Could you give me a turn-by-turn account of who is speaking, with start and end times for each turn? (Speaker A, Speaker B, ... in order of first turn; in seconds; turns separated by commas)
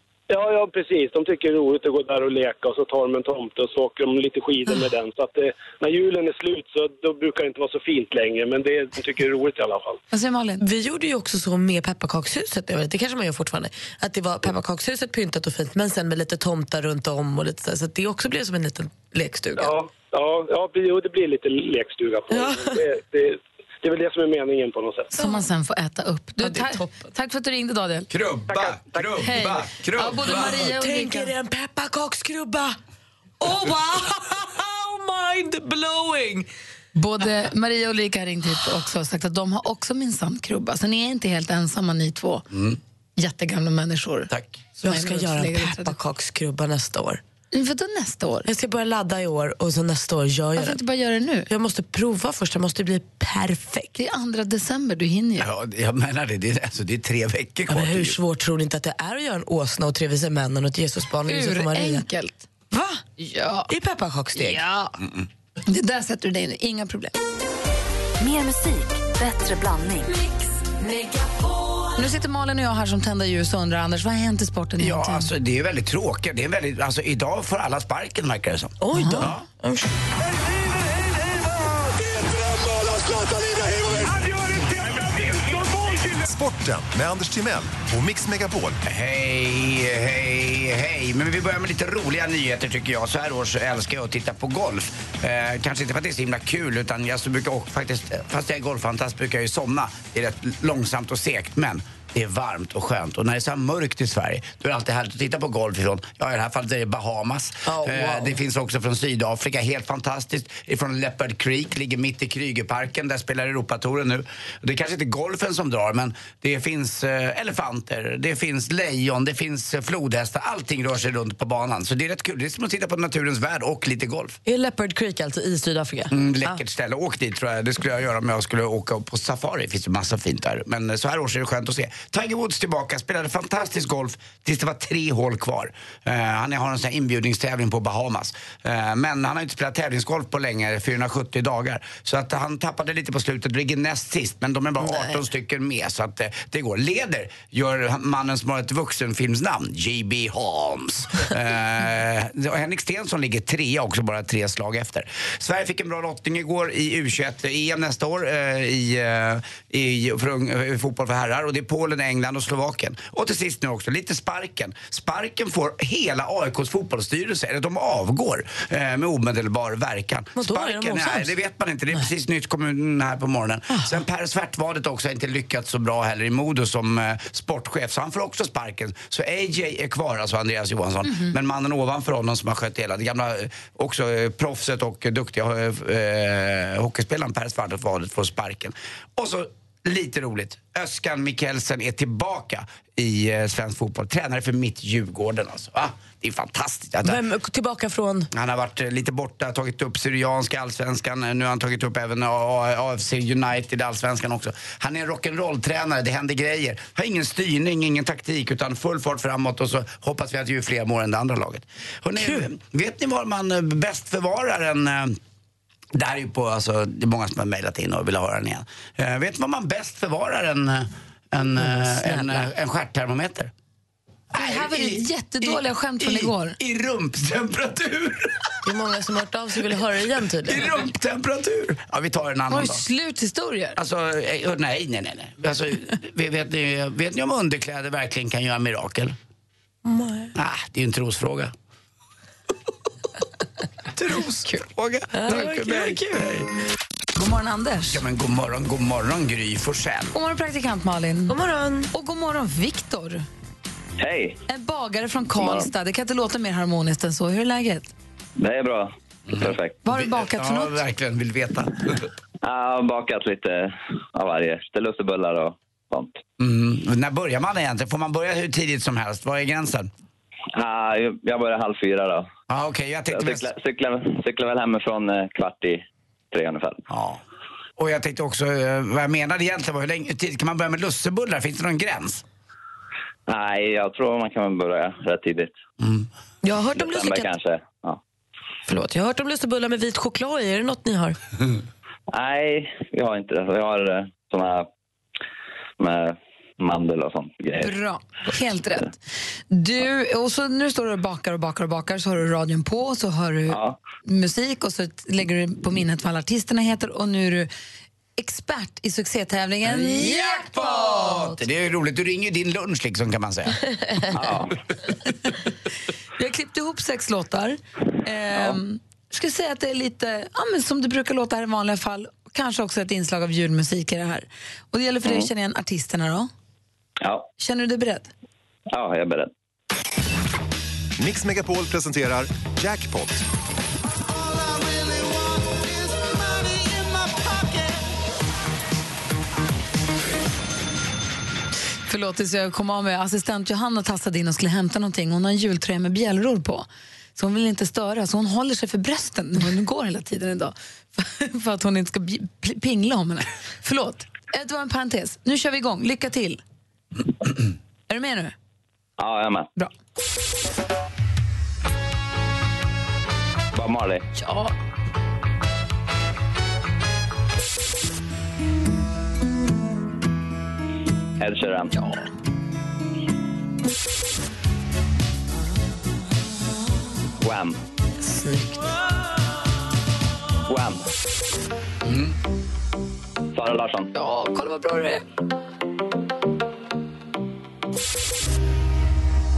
Speaker A: 0.3-10.0, Speaker B: 10.1-10.6, Speaker C: 10.6-19.7, Speaker A: 19.6-25.1, Speaker C: 22.3-22.8, Speaker B: 25.1-28.1, Speaker C: 26.4-27.1, Speaker D: 28.1-30.6, Speaker A: 28.5-29.2, Speaker B: 29.2-31.3, Speaker C: 30.2-32.8, Speaker C: 33.4-36.5, Speaker B: 36.9-42.4, Speaker D: 42.5-42.8, Speaker B: 43.2-44.3, Speaker D: 44.3-44.6, Speaker B: 44.8-46.0, Speaker C: 44.8-47.2, Speaker B: 47.5-48.5, Speaker C: 48.4-50.8, Speaker B: 50.5-51.5, Speaker C: 51.5-53.9, Speaker B: 53.9-55.5, Speaker D: 55.4-58.2, Speaker C: 57.7-62.0, Speaker B: 61.3-62.5, Speaker C: 62.7-63.0, Speaker B: 63.2-63.7, Speaker C: 63.7-64.7, Speaker B: 64.3-64.9, Speaker D: 65.0-65.2, Speaker B: 65.7-67.1, Speaker E: 68.2-70.1, Speaker C: 70.8-71.7, Speaker B: 72.0-75.3, Speaker D: 74.8-79.4, Speaker C: 78.8-79.9, Speaker B: 79.0-79.3, Speaker F: 80.5-88.8, Speaker D: 88.8-124.4, Speaker C: 107.6-108.4, Speaker C: 124.4-126.6, Speaker D: 126.1-197.2, Speaker C: 144.8-145.1, Speaker C: 170.3-171.3, Speaker C: 173.7-174.0, Speaker C: 197.0-198.3, Speaker D: 198.3-215.2, Speaker C: 212.2-212.5, Speaker D: 215.9-223.5, Speaker C: 221.6-222.5, Speaker D: 224.3-228.5, Speaker B: 224.3-226.6, Speaker C: 228.6-230.7, Speaker D: 230.4-232.8, Speaker B: 232.5-233.8, Speaker D: 233.8-239.2, Speaker C: 239.8-240.3, Speaker D: 240.3-241.5, Speaker D: 243.9-246.5, Speaker C: 245.1-246.0, Speaker B: 247.2-248.0, Speaker D: 247.9-250.1, Speaker B: 250.1-251.3, Speaker C: 251.3-251.9, Speaker B: 251.9-253.2, Speaker G: 254.0-254.4, Speaker B: 254.5-257.9, Speaker G: 255.4-255.7, Speaker G: 258.4-259.8, Speaker D: 259.3-262.1, Speaker B: 259.8-260.8, Speaker G: 262.4-266.2, Speaker D: 266.4-269.9, Speaker G: 270.5-272.3, Speaker D: 272.5-273.5, Speaker G: 273.1-276.8, Speaker D: 276.9-277.2, Speaker D: 277.8-282.2, Speaker G: 283.3-285.5, Speaker D: 285.8-286.1, Speaker C: 286.4-287.3, Speaker G: 286.7-288.0, Speaker C: 288.6-291.1, Speaker G: 292.1-294.7, Speaker G: 295.8-297.7, Speaker B: 297.6-299.0, Speaker B: 299.5-307.5, Speaker G: 303.5-303.8, Speaker B: 308.2-311.4, Speaker D: 309.6-313.6, Speaker G: 314.1-314.5, Speaker B: 315.1-315.3, Speaker B: 316.2-326.3, Speaker G: 327.0-327.3, Speaker B: 327.4-328.1, Speaker G: 328.7-329.3, Speaker F: 331.0-333.2, Speaker F: 334.2-337.7, Speaker B: 341.9-356.4, Speaker B: 357.9-358.3, Speaker G: 359.0-359.5, Speaker G: 363.5-364.1, Speaker B: 364.1-364.5, Speaker G: 371.2-371.7, Speaker B: 371.7-372.0, Speaker G: 377.2-377.6, Speaker C: 378.0-378.7, Speaker G: 380.5-380.8, Speaker D: 381.8-382.1, Speaker G: 383.3-383.9, Speaker B: 383.9-385.0